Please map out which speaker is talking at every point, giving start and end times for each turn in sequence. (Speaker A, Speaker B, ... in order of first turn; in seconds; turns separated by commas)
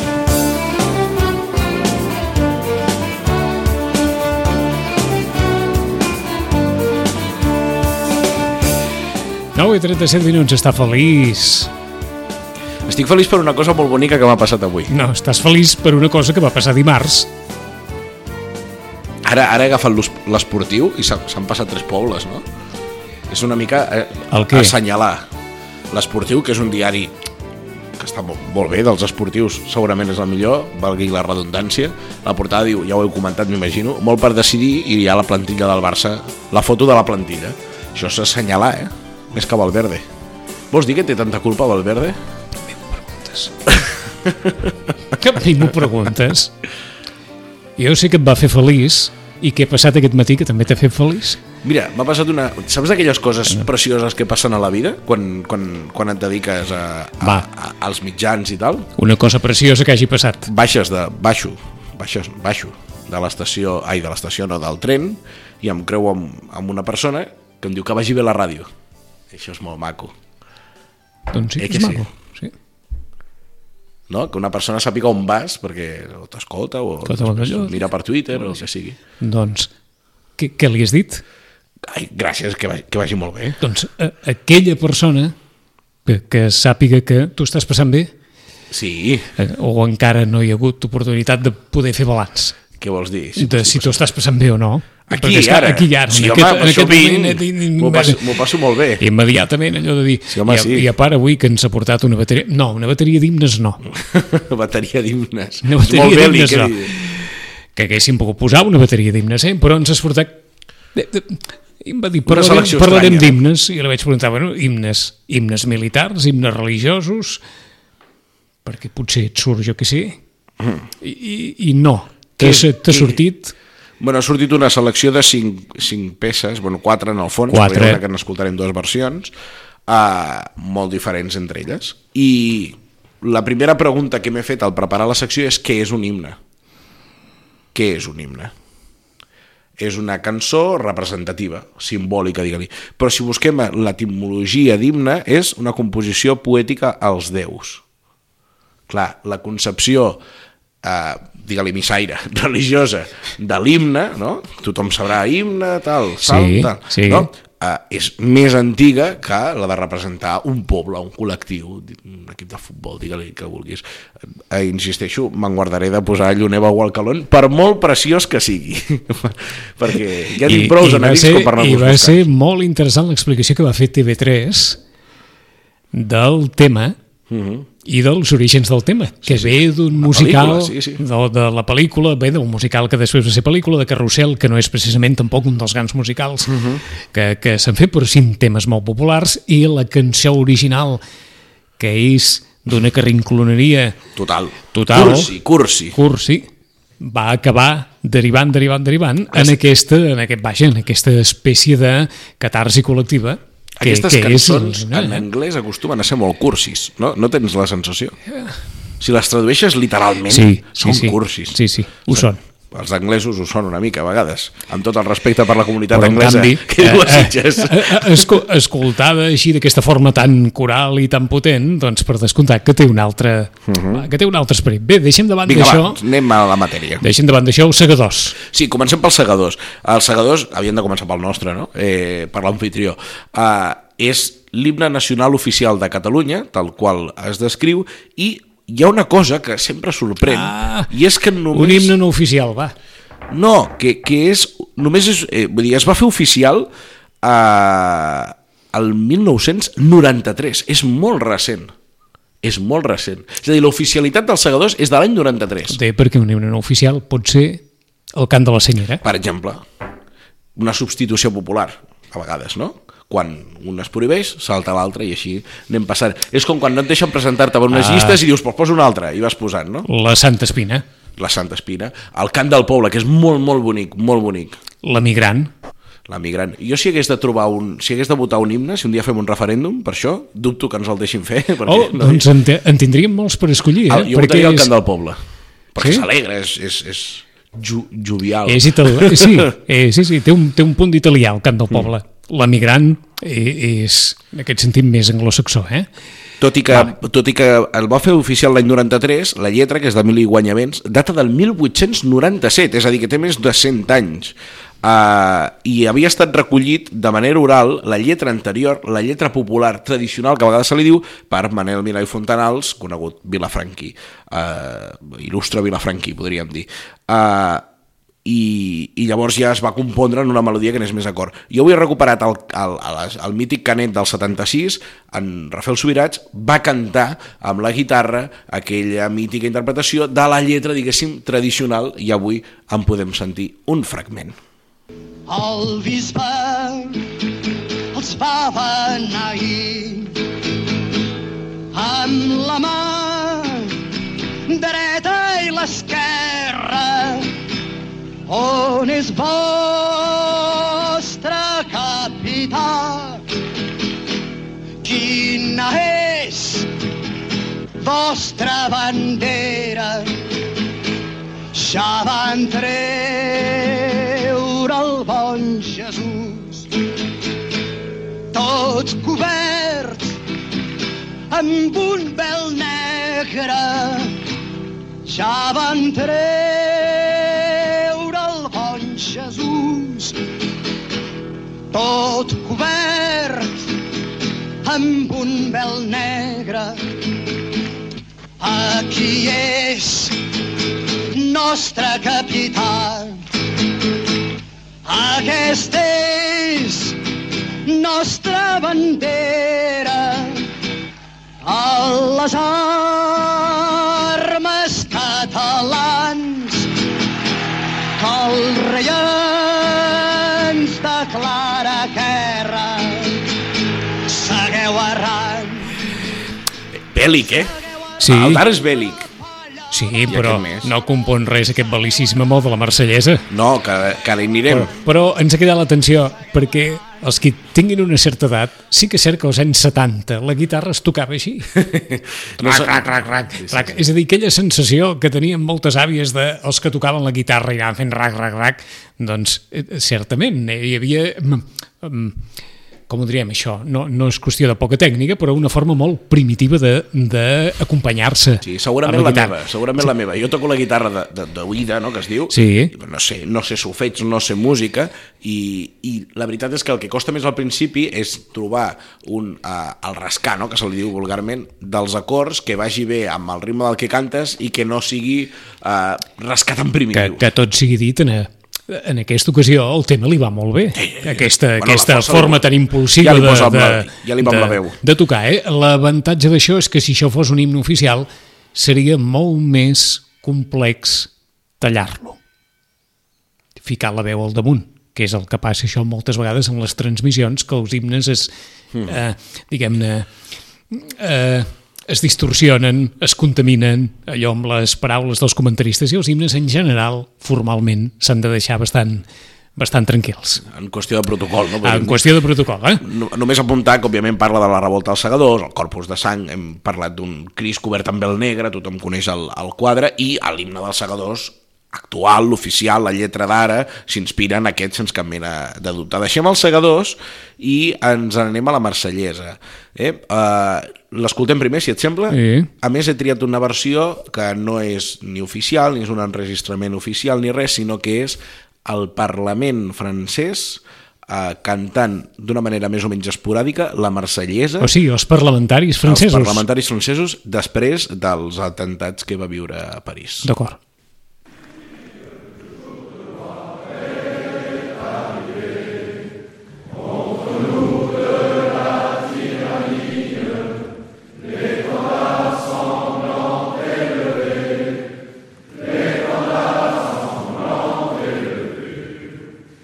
Speaker A: 9.6-11.7, Speaker B: 12.8-14.9, Speaker A: 14.9-17.3, Speaker B: 19.2-22.4, Speaker B: 23.3-25.3, Speaker A: 24.3-24.8, Speaker B: 25.9-27.1, Speaker B: 28.0-40.0, Speaker B: 40.7-42.2, Speaker A: 42.7-43.5, Speaker B: 43.7-44.8, Speaker A: 45.1-46.6, Speaker A: 47.8-51.4, Speaker B: 51.6-58.9, Speaker A: 59.0-60.5, Speaker B: 60.5-68.7, Speaker B: 69.3-70.1, Speaker A: 71.3-72.5, Speaker B: 71.6-72.1, Speaker B: 74.1-79.0, Speaker A: 77.1-77.7, Speaker A: 79.2-79.7, Speaker A: 80.4-81.2, Speaker B: 81.8-83.6, Speaker A: 83.6-85.3, Speaker A: 86.1-88.1, Speaker B: 88.7-89.3, Speaker A: 89.4-92.6, Speaker B: 92.8-94.1, Speaker A: 93.4-98.4, Speaker B: 95.1-99.0, Speaker A: 99.0-103.8, Speaker B: 100.3-100.9, Speaker B: 103.9-107.0, Speaker A: 105.6-110.4, Speaker A: 111.0-117.4, Speaker B: 112.3-113.4, Speaker A: 118.7-120.2, Speaker A: 121.0-123.5, Speaker B: 122.4-123.2, Speaker B: 124.0-129.3, Speaker A: 127.5-128.0, Speaker B: 129.9-136.4, Speaker B: 137.7-138.5, Speaker B: 139.8-147.8, Speaker B: 148.9-150.2, Speaker B: 150.8-163.8, Speaker A: 156.2-157.3, Speaker B: 164.4-172.2, Speaker A: 170.4-174.8, Speaker A: 175.9-177.0, Speaker B: 177.3-177.7, Speaker A: 177.8-191.0, Speaker B: 179.2-181.0, Speaker B: 186.5-186.8, Speaker A: 191.8-194.0, Speaker B: 194.2-196.0, Speaker A: 194.7-195.3, Speaker A: 195.9-196.5, Speaker A: 197.0-205.2, Speaker B: 199.3-199.6, Speaker B: 203.8-208.2, Speaker B: 209.0-218.3, Speaker A: 210.3-212.4, Speaker A: 215.9-226.0, Speaker B: 223.7-224.1, Speaker B: 225.5-227.0, Speaker A: 227.0-228.4, Speaker B: 228.4-242.0, Speaker A: 240.2-240.9, Speaker A: 241.5-242.7, Speaker B: 243.3-246.7, Speaker B: 247.2-251.7, Speaker B: 252.4-255.8, Speaker A: 255.7-257.6, Speaker A: 258.1-259.0, Speaker B: 259.0-259.6, Speaker B: 260.6-269.9, Speaker A: 267.7-268.2, Speaker A: 269.9-270.9, Speaker B: 271.2-274.6, Speaker A: 274.8-275.5, Speaker B: 276.1-282.3, Speaker A: 281.6-284.7, Speaker B: 283.9-285.2, Speaker B: 285.7-289.5, Speaker A: 285.8-286.1, Speaker A: 288.5-295.9, Speaker B: 296.4-317.6, Speaker B: 318.2-334.4, Speaker C: 335.3-337.2, Speaker C: 337.9-340.2, Speaker C: 341.7-343.9, Speaker C: 344.5-347.4, Speaker C: 348.3-353.3, Speaker C: 354.8-356.7, Speaker C: 357.8-360.2, Speaker C: 361.5-366.7, Speaker C: 368.3-370.2, Speaker C: 371.3-374.2, Speaker C: 375.1-380.2, Speaker C: 381.7-383.7, Speaker C: 384.6-386.9, Speaker C: 388.4-390.2, Speaker C: 391.1-393.2, Speaker C: 394.9-397.0, Speaker C: 397.6-400.5, Speaker C: 401.4-406.8, Speaker C: 408.0-413.3, Speaker C: 414.0-415.8, Speaker B: 416.8-419.1, Speaker A: 418.0-418.4, Speaker A: 419.7-423.3, Speaker B: 420.1-420.7, Speaker B: 423.3-424.7, Speaker A: 424.5-431.6, Speaker B: 431.5-433.9, Speaker A: 432.4-442.2, Speaker A: 442.9-449.3, Speaker B: 448.4-467.2, Speaker A: 452.3-452.7, Speaker A: 466.9-482.2, Speaker B: 470.8-472.4, Speaker B: 473.0-474.8, Speaker A: 483.6-488.3, Speaker A: 488.9-490.1, Speaker A: 490.7-500.4, Speaker B: 500.4-502.1, Speaker A: 501.6-502.8, Speaker B: 502.8-534.7, Speaker A: 522.1-522.5, Speaker A: 534.6-536.4, Speaker B: 535.9-540.3, Speaker A: 540.2-540.6